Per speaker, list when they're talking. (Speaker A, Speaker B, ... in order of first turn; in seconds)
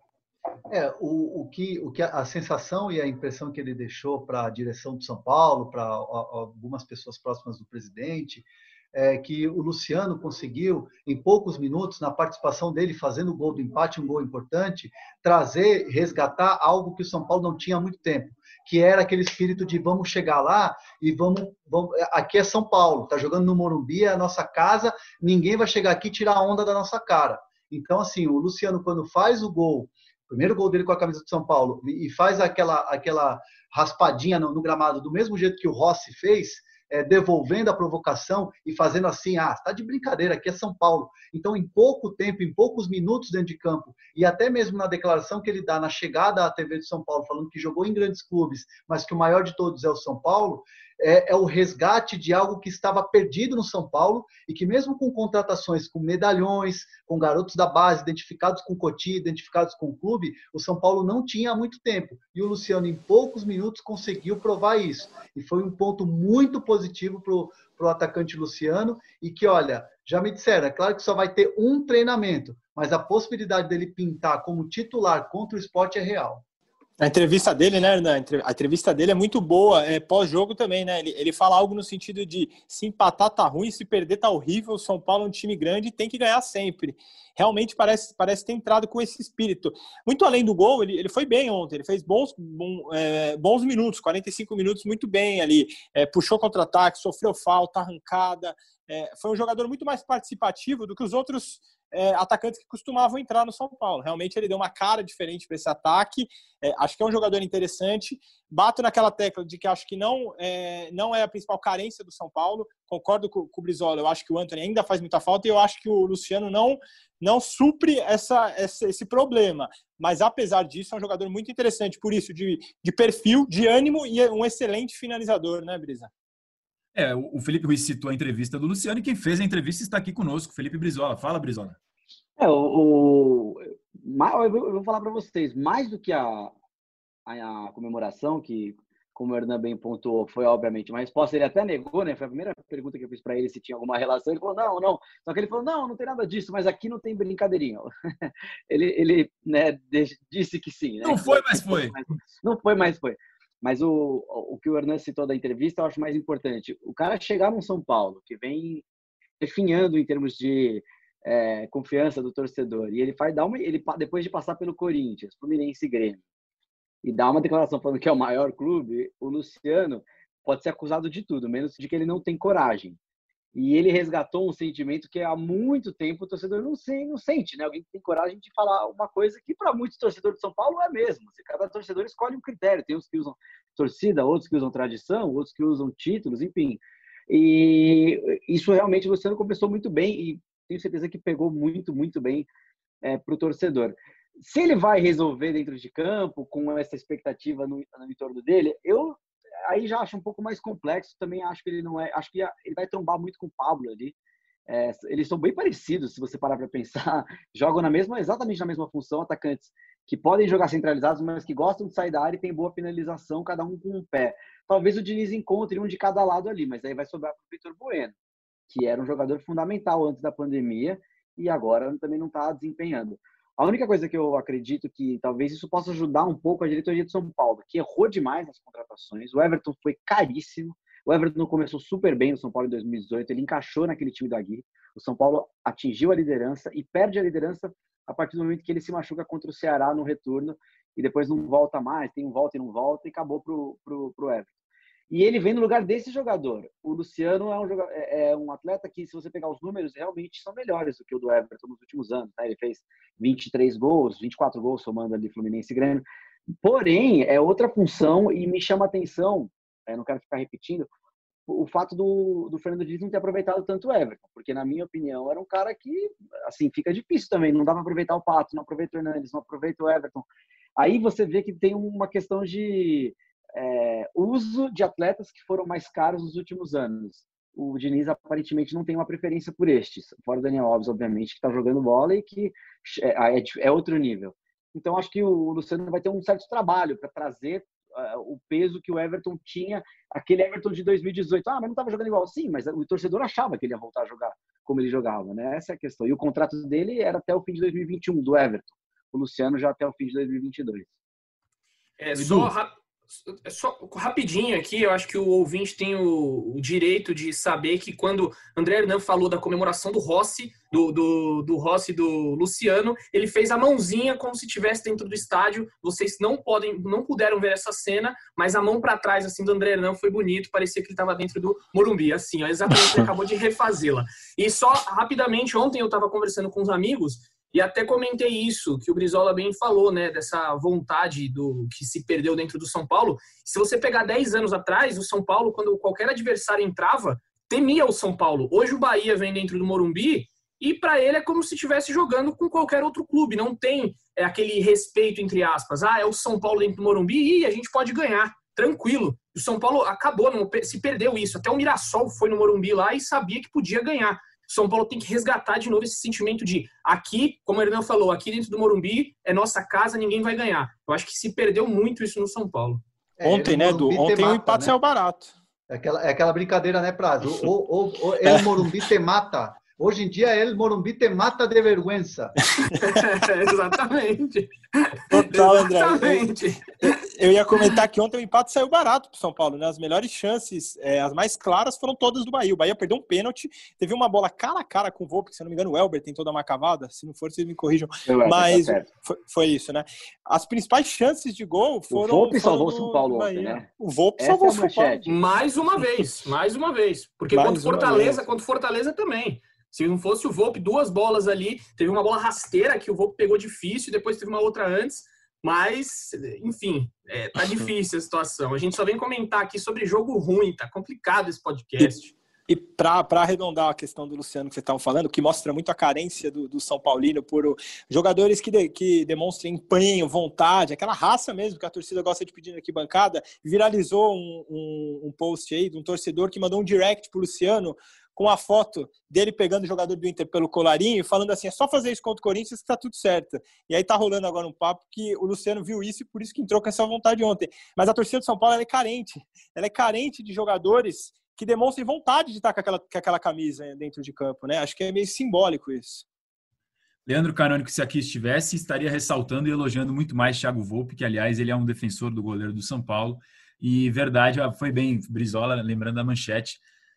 Speaker A: 0.7-76.4, 363.2-364.8, 365.7-372.4
Speaker B: 77.0-126.1, 363.2-365.3, 368.2-368.7, 375.1-376.3, 376.8-395.1, 397.3-398.2, 412.5-446.1
Speaker C: 126.9-131.8, 151.0-152.0, 302.1-302.5, 447.1-456.6
Speaker D: 132.4-136.5, 137.3-158.8, 159.4-166.2, 167.0-173.0, 173.6-192.5, 193.0-204.1, 204.7-218.1, 218.7-244.5, 245.1-260.9, 261.5-300.9, 388.1-388.9, 391.9-393.7, 394.2-395.2
Speaker E: 302.0-302.7, 303.3-362.8, 372.8-377.0, 395.1-412.1